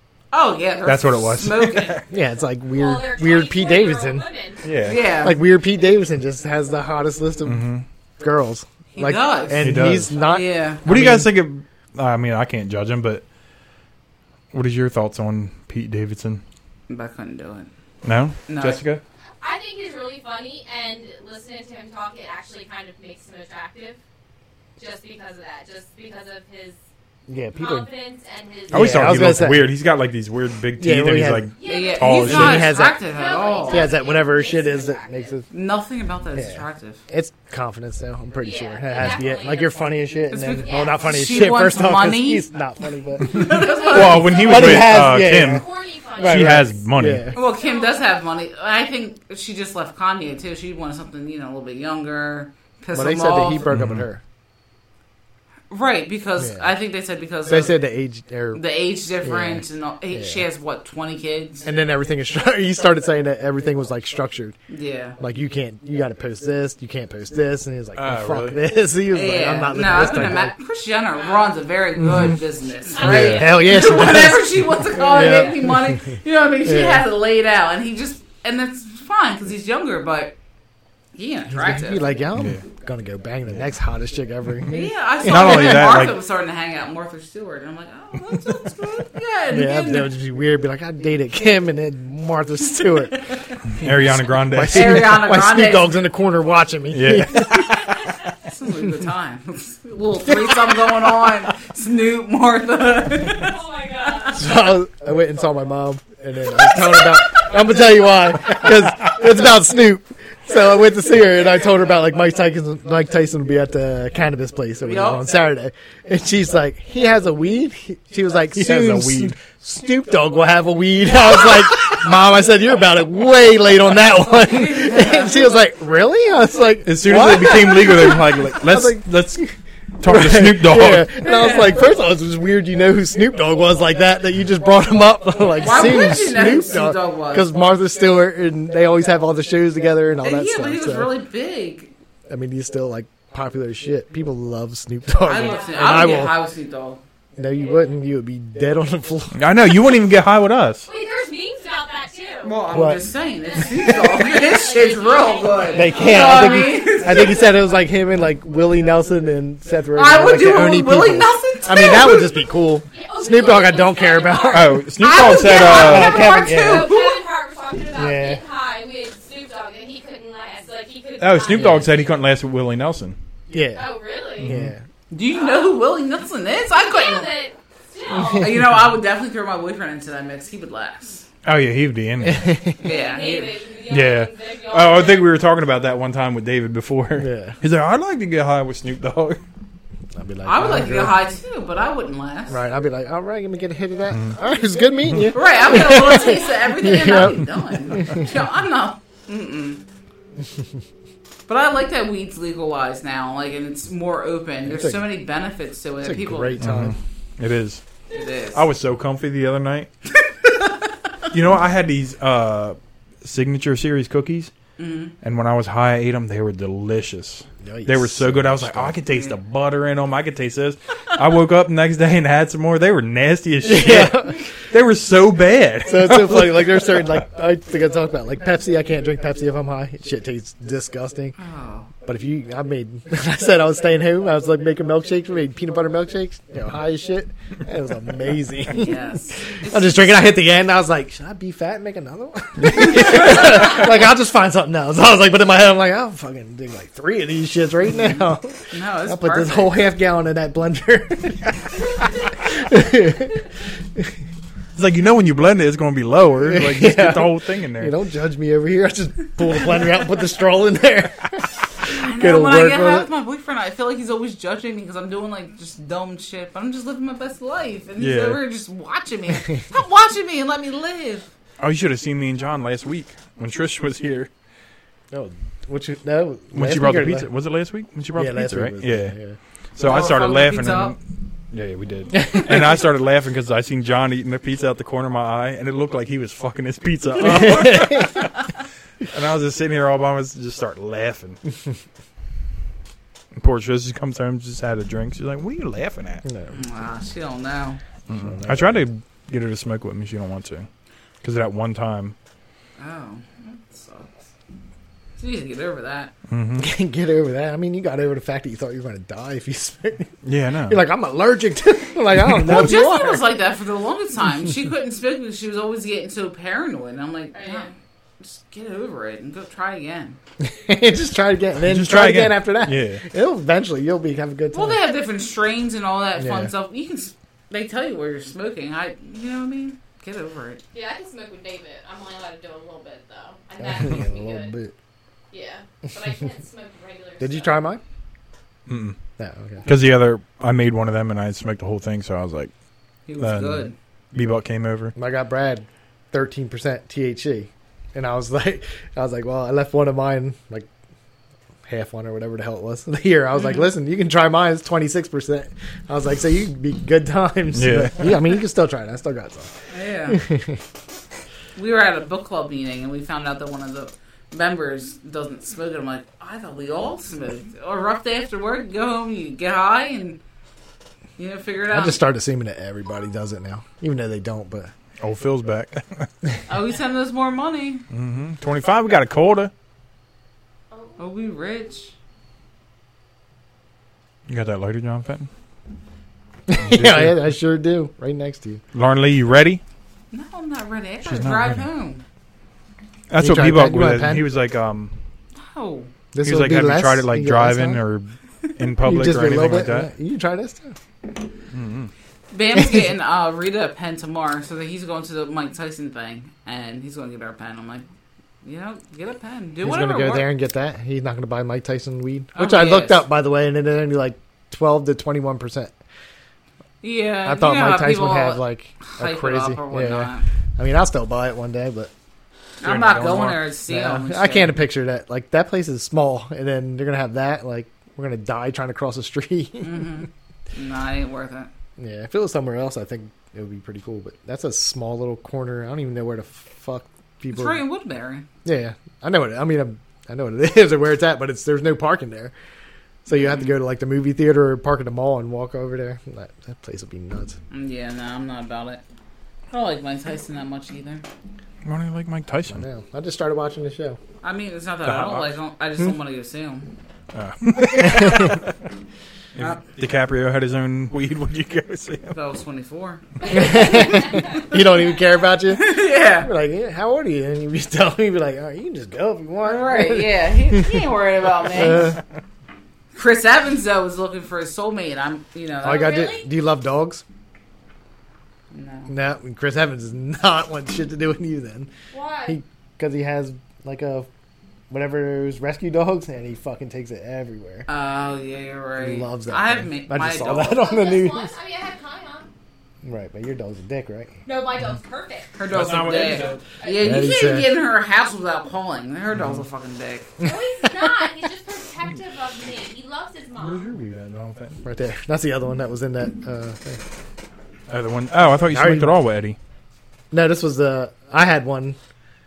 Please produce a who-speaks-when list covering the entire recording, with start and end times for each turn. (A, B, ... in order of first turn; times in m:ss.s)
0:00.3-0:02.0 A
0:00.8-0:02.0 B
0:02.1-0:04.3 C
0:02.7-0:04.7 D
0:04.6-0:05.0 B
0:04.8-0:05.4 A
0:05.2-0:07.7 C
0:07.4-0:07.9 B
0:08.2-0:11.3 C
0:09.0-0:10.9 A
0:09.6-0:10.2 B
0:10.8-0:13.2 B
0:14.5-0:16.4 B
0:16.9-0:17.7 A
0:18.0-0:19.0 B
0:18.5-0:18.8 A
0:19.4-0:24.0 D
0:24.8-0:26.8 D
0:27.3-0:27.9 C
0:27.6-0:29.2 D
0:28.7-0:29.7 C
0:28.7-0:32.8 B
0:30.8-0:31.5 C
0:31.6-0:35.3 D
0:31.6-0:34.0 A
0:32.1-0:33.0 C
0:33.6-0:35.5 C
0:35.5-0:37.0 A
0:36.3-0:43.7 C
0:38.4-0:39.9 D
0:40.3-0:42.5 A
0:40.6-0:41.5 D
0:43.2-0:44.6 A
0:43.5-0:46.7 D
0:43.8-0:45.6 B
0:44.3-0:45.6 C
0:46.2-0:47.3 B
0:46.2-0:47.4 C
0:47.3-0:53.7 A
0:47.3-0:48.0 D
0:52.9-0:54.2 C
0:53.7-0:54.0 B
0:55.7-0:57.8 A
0:56.4-0:56.7 C
0:57.5-0:58.6 C
0:58.5-1:01.6 A
0:59.2-1:00.4 C
1:01.6-1:04.6 C
1:04.7-1:05.2 A
1:05.2-1:10.5 C
1:08.0-1:08.6 B
1:09.1-1:20.4 A
1:12.0-1:12.4 C
1:13.0-1:13.6 D
1:13.0-1:13.5 B
1:13.0-1:17.1 C
1:21.2-1:22.1 A
1:21.5-1:26.0 C
1:22.4-1:22.6 B
1:24.7-1:30.1 A
1:25.2-1:26.2 B
1:29.5-1:37.8 C
1:33.7-1:35.2 B
1:34.7-1:36.0 A
1:36.9-1:38.0 B
1:38.4-1:43.6 A
1:43.3-1:44.5 D
1:44.3-2:21.1 C
1:54.8-1:55.3 A
1:58.5-1:59.4 B
2:04.3-2:05.6 A
2:06.8-2:09.4 B
2:10.0-2:11.1 B
2:11.2-2:11.9 A
2:15.6-2:17.6 A
2:20.2-2:21.9 A
2:22.3-2:26.4 C
2:25.2-2:27.0 A
2:25.3-2:26.2 D
2:27.4-2:29.4 C
2:29.3-2:30.9 B
2:30.9-2:32.6 D
2:32.4-2:37.5 A
2:32.7-2:33.0 C
2:33.5-2:37.3 D
2:35.7-2:44.9 C
2:40.0-2:42.5 A
2:42.9-2:51.9 D
2:44.5-2:46.3 B
2:45.0-2:47.2 A
2:45.6-2:47.0 C
2:47.9-2:48.4 C
2:51.2-2:53.2 B
2:51.5-2:51.9 C
2:53.5-2:53.9 C
2:53.7-2:54.5 D
2:54.4-2:54.7 B
2:54.4-2:54.8 C
2:55.1-2:57.4 A
2:55.3-2:55.7 D
2:56.7-2:58.7 D
2:58.2-3:01.3 A
3:01.4-3:02.6 B
3:02.2-3:02.8 C
3:02.8-3:05.3 D
3:02.8-3:03.6 A
3:03.9-3:09.4 B
3:07.2-3:07.6 C
3:10.1-3:11.2 C
3:10.4-3:12.6 A
3:12.5-3:18.3 C
3:15.3-3:19.8 A
3:21.5-3:26.6 A
3:24.7-3:25.0 C
3:26.0-3:27.0 C
3:26.6-3:27.8 B
3:28.1-3:28.7 A
3:28.5-3:29.9 B
3:30.4-3:30.9 A
3:31.3-3:34.5 B
3:34.8-3:35.2 A
3:35.2-3:46.9 B
3:37.6-3:39.0 C
3:39.1-3:39.4 A
3:43.6-3:44.4 C
3:45.8-3:51.4 C
3:51.4-3:51.9 A
3:52.0-4:11.6 C
3:58.7-4:00.3 A
4:07.9-4:08.2 A
4:08.7-4:09.7 A
4:12.3-4:14.1 C
4:14.8-4:18.0 B
4:16.4-4:23.1 C
4:21.9-4:31.3 A
4:28.0-4:28.4 B
4:31.6-4:34.3 B
4:35.1-4:37.3 C
4:36.5-4:39.2 B
4:38.2-4:39.4 C
4:39.8-4:41.0 B
4:39.8-4:41.0 A
4:41.5-4:48.4 B
4:42.2-4:42.7 C
4:47.2-4:48.2 C
4:49.0-4:51.4 B
4:53.3-4:56.2 B
4:56.2-4:56.6 C
4:56.5-4:57.8 A
4:58.1-5:00.7 B
4:58.1-4:58.8 C
5:01.2-5:02.2 B
5:02.8-5:04.1 A
5:05.2-5:06.1 A
5:06.3-5:06.7 B
5:06.6-5:10.1 C
5:10.2-5:10.8 B
5:10.7-5:13.2 C
5:12.3-5:12.8 B
5:12.5-5:20.2 A
5:17.3-5:17.7 D
5:20.4-5:24.8 C
5:21.6-5:23.0 B
5:24.5-5:30.6 A
5:26.2-5:26.5 C
5:30.7-5:34.5 D
5:33.6-5:34.7 C
5:35.3-5:37.6 D
5:37.2-5:37.8 C
5:38.7-5:39.0 B
5:39.2-5:39.7 C
5:39.6-5:42.5 B
5:43.1-5:43.8 A
5:43.2-5:44.9 B
5:45.0-5:50.7 C
5:51.7-5:59.5 C
5:53.4-5:53.6 A
5:57.5-5:58.1 B
5:59.7-6:00.2 A
6:00.1-6:00.6 C
6:01.6-6:10.2 A
6:11.2-6:12.0 A
6:11.7-6:14.7 C
6:15.0-6:16.1 B
6:16.5-6:17.8 A
6:17.9-6:19.5 B
6:20.7-6:21.1 D
6:21.0-6:21.9 A
6:24.3-6:25.3 B
6:26.5-6:28.6 C
6:26.6-6:27.2 B
6:28.7-6:29.6 B
6:30.1-6:32.0 A
6:31.0-6:31.7 B
6:33.1-6:35.0 B
6:33.2-6:34.3 C
6:35.4-6:35.9 A
6:36.1-6:37.8 C
6:36.2-6:39.9 B
6:38.8-6:40.8 C
6:41.5-6:41.9 B
6:42.3-6:47.9 A
6:42.5-6:42.9 C
6:48.4-6:50.3 A
6:49.6-6:55.7 C
6:52.4-6:53.0 A
6:56.8-7:00.3 A
6:57.2-7:01.9 C
7:02.6-7:04.6 A
7:02.6-7:03.4 B
7:03.7-7:10.0 C
7:09.6-7:11.5 A
7:11.8-7:17.6 C
7:17.3-7:18.3 A
7:18.4-7:22.3 C
7:23.0-7:27.4 C
7:23.1-7:23.5 A
7:27.5-7:28.8 A
7:29.5-7:31.0 A
7:31.6-7:32.6 B
7:32.5-7:34.0 C
7:34.2-7:36.7 A
7:34.8-7:35.3 B
7:37.1-7:38.5 B
7:38.0-7:38.3 C
7:39.4-7:42.2 B
7:42.1-7:44.4 A
7:43.3-7:50.8 C
7:43.3-7:44.3 D
7:45.5-7:46.3 A
7:49.4-7:52.0 A
7:51.5-7:52.0 C
7:53.0-7:56.0 A
7:55.6-7:57.0 C
7:55.6-7:56.3 D
7:58.5-7:58.9 A
7:58.9-8:01.7 C
8:01.9-8:02.4 D
8:02.3-8:04.1 C
8:04.7-8:07.7 C
8:07.7-8:10.6 A
8:08.8-8:11.3 C
8:10.4-8:12.3 D
8:12.8-8:14.2 C
8:14.2-8:15.4 D
8:15.4-8:20.1 A
8:15.5-8:16.4 B
8:16.6-8:17.1 D
8:16.8-8:17.5 C
8:19.1-8:19.4 B
8:20.2-8:20.9 C
8:20.2-8:23.7 D
8:23.4-8:24.6 B
8:24.6-8:26.8 C
8:27.7-8:29.4 B
8:28.5-8:29.0 C
8:30.1-8:31.8 C